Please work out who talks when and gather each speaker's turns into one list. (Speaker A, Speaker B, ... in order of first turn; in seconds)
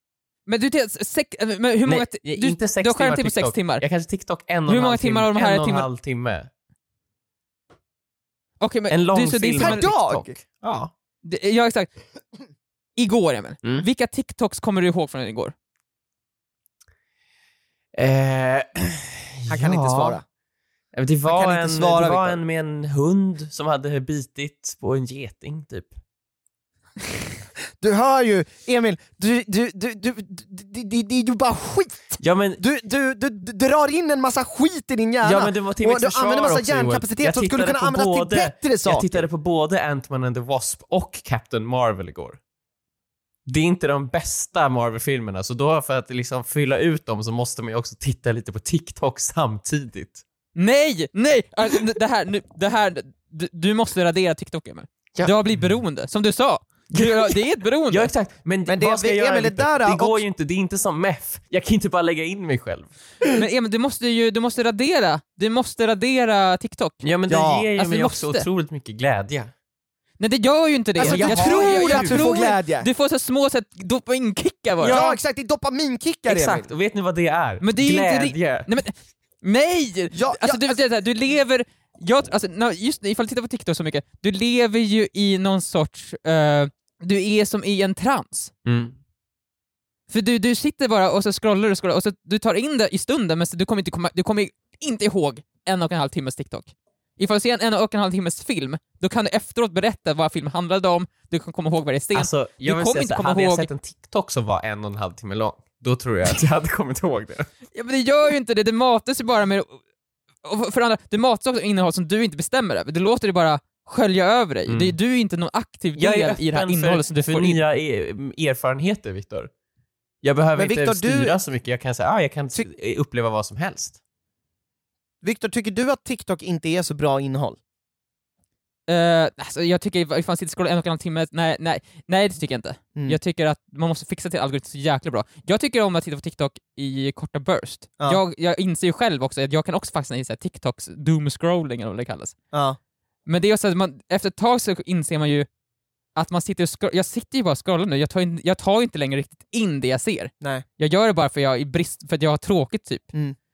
Speaker A: 0.5-3.8, 4.7-5.9, 8.6-9.9, 11.2-11.9, 13.0-15.5, 50.5-58.1, 63.3-67.1, 67.8-68.5, 70.2-75.0, 77.6-88.5, 90.1-103.7, 107.7-109.8, 110.4-117.6, 128.9-142.3, 143.2-145.5, 146.2-153.1
Speaker B: 1.9-6.5, 8.9-10.9, 17.9-20.2, 20.9-25.9, 32.2-32.6, 35.2-42.4, 43.5-50.2, 56.9-57.4, 57.9-62.9, 67.0-69.5, 71.0-72.2, 74.8-75.2, 76.2-78.7, 88.7-89.0, 102.1-107.5, 114.7-115.0, 116.0-119.5, 120.2-124.0
Speaker C: 9.6-10.3, 19.5-20.2, 21.3-22.4, 27.8-39.2, 58.7-60.2, 67.3-67.7, 71.0-72.9, 74.9-76.7, 80.1-80.8, 120.5-121.4, 125.2-127.6, 142.5-142.8